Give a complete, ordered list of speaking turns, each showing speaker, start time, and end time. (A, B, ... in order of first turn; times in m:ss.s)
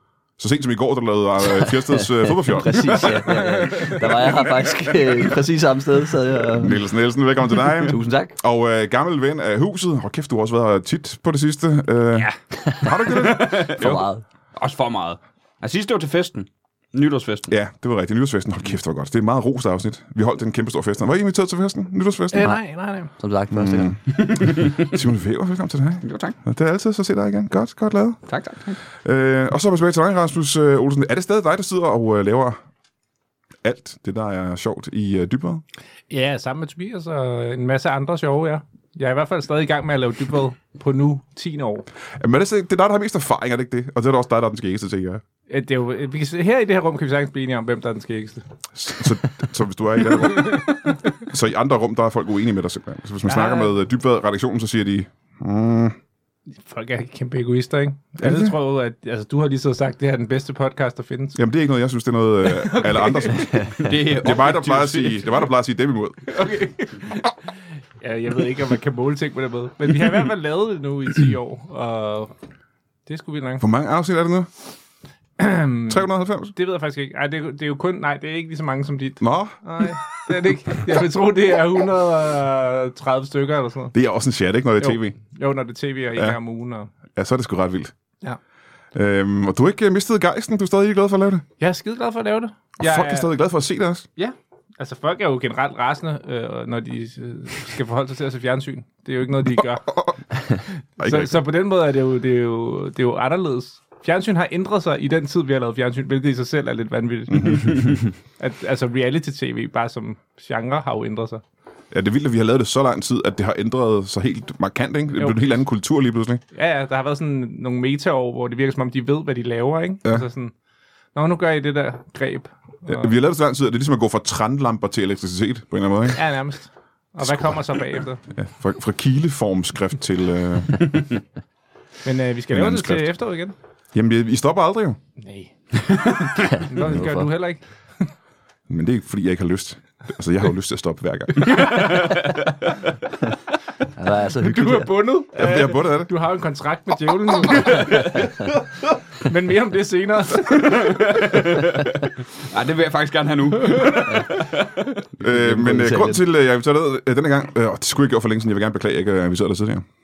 0:00.4-0:03.1 A
0:01.4-0:06.8 B
0:02.7-0:03.5 C
0:03.6-0:04.0 D
0:06.5-0:13.7 A
0:07.8-0:08.3 B
0:12.6-0:12.9 B
0:13.1-0:17.5 C
0:13.8-0:14.2 B
0:17.5-0:22.5 A
0:22.3-0:23.1 D
0:23.2-0:24.0 B
0:23.5-0:28.2 A
0:24.2-0:24.9 C
0:26.0-0:26.4 C
0:28.3-0:28.8 C
0:29.0-0:32.6 A
0:33.6-0:35.6 A
0:36.1-0:41.8 D
0:42.2-0:45.2 A
0:45.5-0:48.4 D
0:48.7-0:56.0 A
0:50.1-0:50.6 D
0:53.2-0:53.7 D
0:56.6-1:01.4 D
0:58.2-0:58.5 A
1:01.4-1:06.3 A
1:02.6-1:03.5 D
1:03.8-1:05.4 C
1:06.3-1:07.3 D
1:08.0-1:12.3 D
1:13.0-1:13.6 D
1:13.6-1:14.5 A
1:15.4-1:23.9 D
1:15.9-1:16.5 A
1:19.2-1:20.3 A
1:23.9-1:25.2 A
1:24.8-1:26.9 D
1:27.1-1:27.9 A
1:28.9-1:31.4 A
1:31.6-1:33.3 D
1:32.8-1:34.1 A
1:34.2-1:51.4 D
1:39.8-1:40.1 A
1:41.0-1:41.4 A
1:47.3-1:47.7 A
1:51.9-1:56.4 A
1:55.2-1:55.6 D
1:56.5-2:00.5 D
2:01.1-2:03.1 D
2:02.8-2:06.2 A
2:06.1-2:08.2 D
2:07.2-2:10.9 A
2:12.0-2:13.5 D
2:12.5-2:13.2 A
2:13.9-2:15.0 A
2:15.2-2:15.5 D
2:16.5-2:17.3 B
2:16.7-2:18.1 D
2:18.7-2:21.7 A
2:21.6-2:22.4 C
2:24.0-2:24.9 B
2:24.4-2:28.6 D
2:25.3-2:26.1 A
2:29.2-2:31.2 D
2:30.5-2:34.6 C
2:35.2-2:36.2 B
2:35.2-2:39.8 A